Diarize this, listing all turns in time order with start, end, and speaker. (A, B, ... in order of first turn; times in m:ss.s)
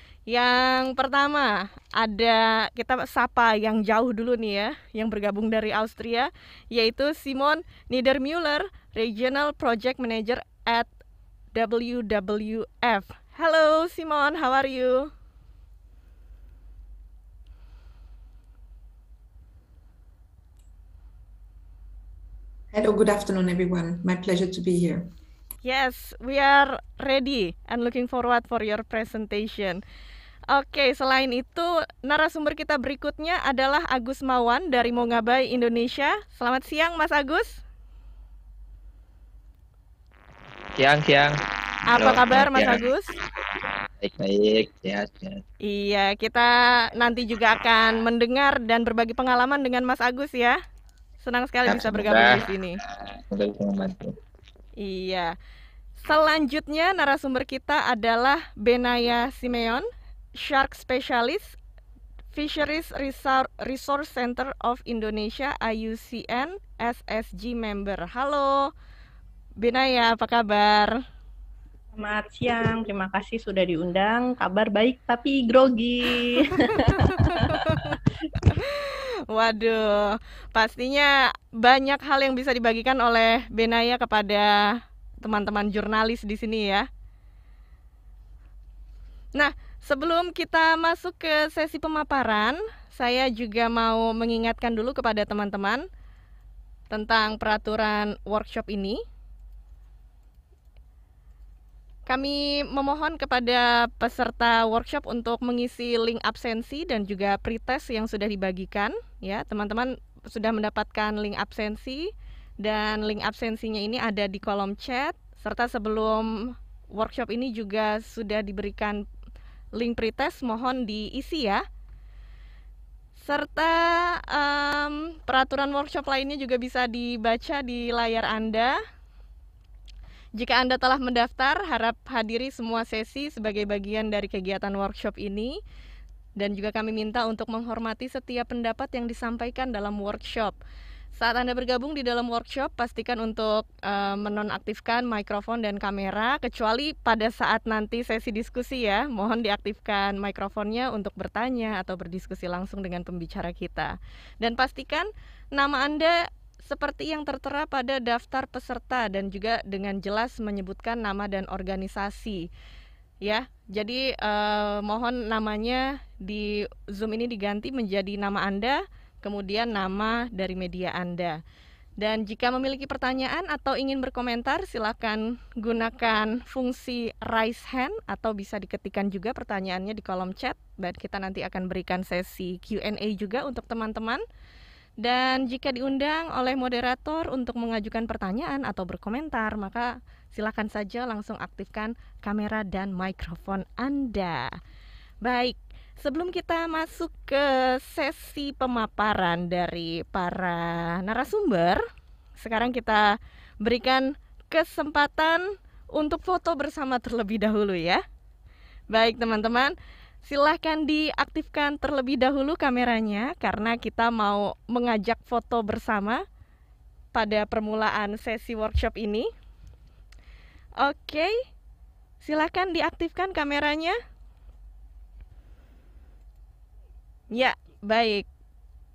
0:00.3-0:10.9 A
0:11.5-0:15.1 A
0:22.7-0:25.1 B
0:25.6-0:29.8 A
0:30.5-0:37.6 A
0:40.7-0:41.4 C
0:41.9-0:43.1 A
0:41.9-0:42.9 C
0:44.0-0:45.4 C
0:45.6-0:50.6 A
0:51.2-0:52.8 A
0:51.6-0:52.4 C
0:53.2-0:54.1 C
0:54.8-0:55.3 A
0:56.0-1:01.6 A
1:02.3-1:08.7 A
1:09.6-1:11.0 A
1:12.1-1:16.0 D
1:17.0-1:17.9 A
1:18.5-1:24.6 A
1:25.2-1:26.9 A
1:29.3-1:35.8 A
1:36.9-1:39.0 A
1:42.1-1:59.0 A
1:59.7-2:01.6 A
2:03.2-2:08.8 A
2:10.3-2:15.6 A
2:16.4-2:20.6 A
2:21.2-2:42.5 A
2:43.2-2:51.4 A
2:52.0-3:04.2 A
3:05.0-3:14.5 A
3:15.2-3:21.8 A
3:22.4-3:28.0 A
3:28.9-3:36.2 A
3:37.1-3:39.3 A
3:40.8-3:41.3 A
3:42.2-3:44.0 A
3:47.3-3:48.2 A